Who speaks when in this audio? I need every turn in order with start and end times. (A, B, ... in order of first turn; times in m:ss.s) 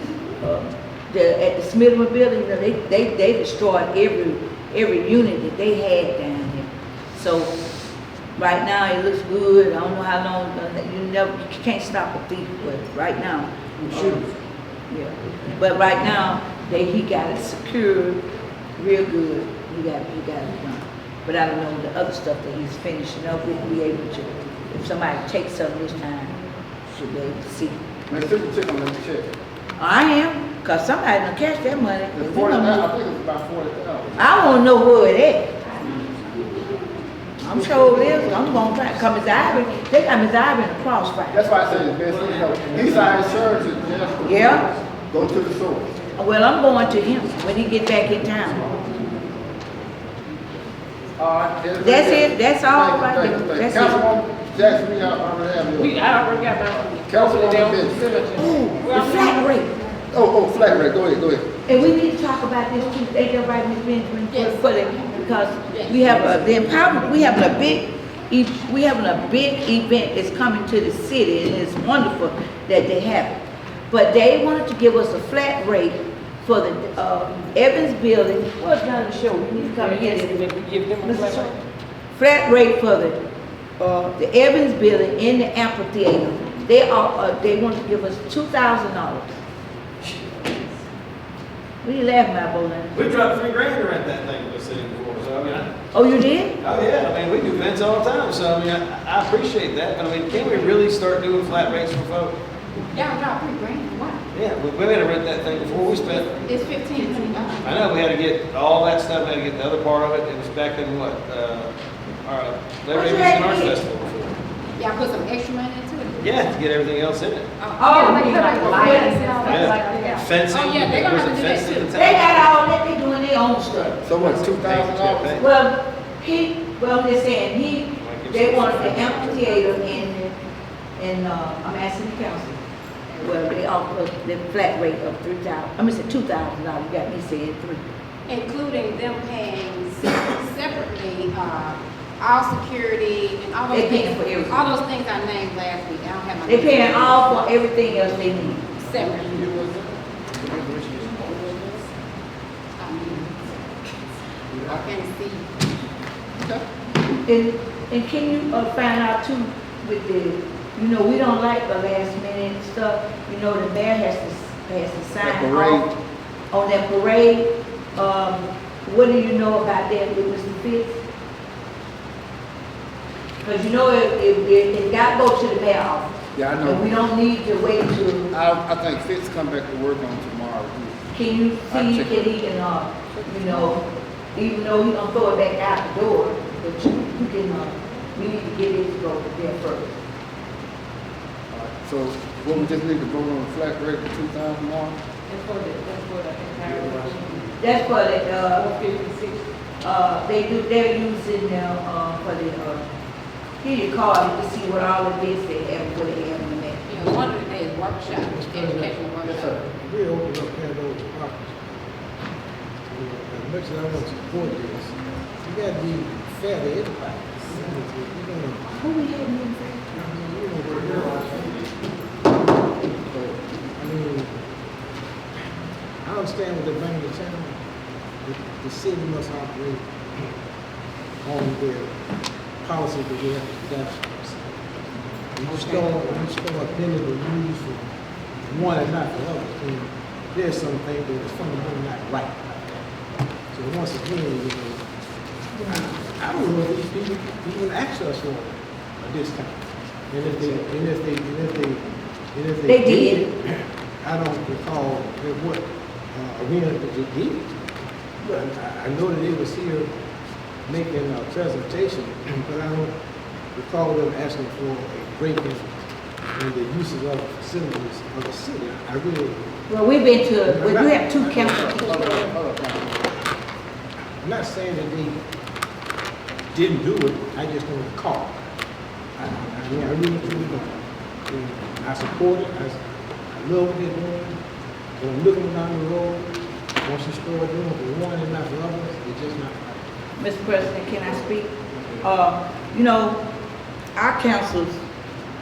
0:00.4-0:07.5 A
0:08.4-0:14.3 A
0:14.9-0:18.2 A
0:18.8-0:26.4 A
0:26.9-0:27.8 A
0:28.1-0:29.3 B
0:29.8-0:32.9 A
0:32.1-0:34.2 B
0:34.2-0:35.6 A
0:37.4-0:41.5 A
0:37.5-0:38.5 B
0:41.3-0:45.9 B
0:44.2-0:44.7 A
0:46.2-0:48.8 A
0:51.2-0:56.0 B
0:51.8-0:54.0 A
0:55.8-0:59.6 C
0:57.0-0:58.5 B
0:58.4-0:59.7 A
1:00.1-1:01.5 B
1:01.7-1:21.6 A
1:04.3-1:06.4 D
1:19.6-1:21.6 C
1:22.2-1:23.2 A
1:23.8-1:29.4 A
1:31.8-1:33.0 A
1:32.9-1:35.7 E
1:35.9-1:36.6 A
1:36.6-1:42.4 E
1:42.9-1:44.2 D
1:44.3-1:46.4 E
1:46.4-1:47.9 D
1:47.6-1:51.7 E
1:52.2-1:54.4 E
1:52.9-1:53.8 A
1:54.8-1:56.4 D
1:56.2-1:57.5 E
1:57.6-2:02.0 D
1:57.8-1:59.3 A
1:57.9-2:00.3 C
1:59.4-2:02.5 E
2:02.0-2:04.0 A
2:04.0-2:05.4 B
2:04.2-2:05.4 E
2:05.4-2:10.4 A
2:08.0-2:09.5 E
2:11.0-2:12.6 A
2:13.2-2:17.8 A
2:18.3-2:27.5 D
2:23.7-2:24.7 A
2:26.5-2:28.7 A
2:28.7-2:29.5 D
2:29.1-2:31.9 B
2:32.8-2:33.9 D
2:34.5-2:34.8 B
2:34.7-2:35.5 D
2:36.4-2:36.6 B
2:37.3-2:45.9 A
2:45.2-2:45.9 B
2:46.5-2:51.0 A
2:53.4-2:58.3 A
2:56.4-2:56.9 B
2:58.3-3:01.0 B
3:01.1-3:03.8 A
3:01.7-3:02.2 B
3:03.4-3:03.8 B
3:04.4-3:10.0 A
3:11.5-3:15.0 B
3:15.3-3:17.6 C
3:17.6-3:18.7 A
3:18.6-3:19.4 C
3:19.8-3:22.9 A
3:23.6-3:27.2 A
3:26.8-3:29.6 D
3:28.2-3:31.7 F
3:29.3-3:29.6 B
3:32.9-3:38.8 F
3:38.8-3:39.9 A
3:39.9-3:41.5 F
3:43.8-3:44.4 F
3:46.0-3:47.6 F
3:48.2-3:49.9 F
3:51.2-3:52.0 F
3:52.6-3:54.6 F
3:55.4-3:57.9 F
3:55.5-3:55.9 A
3:58.4-4:02.8 F
4:03.5-4:04.8 F
4:05.7-4:17.5 F
4:12.7-4:13.2 A
4:18.2-4:19.9 F
4:20.7-4:22.9 F
4:23.5-4:25.8 F
4:26.4-4:29.5 F
4:29.7-4:32.3 A
4:30.4-4:32.3 F
4:31.4-4:33.1 B
4:34.2-4:35.2 F
4:36.5-4:38.4 F
4:39.2-4:44.4 F
4:45.0-4:46.3 F
4:46.8-4:49.8 F
4:50.2-4:53.2 A
4:54.0-4:54.8 A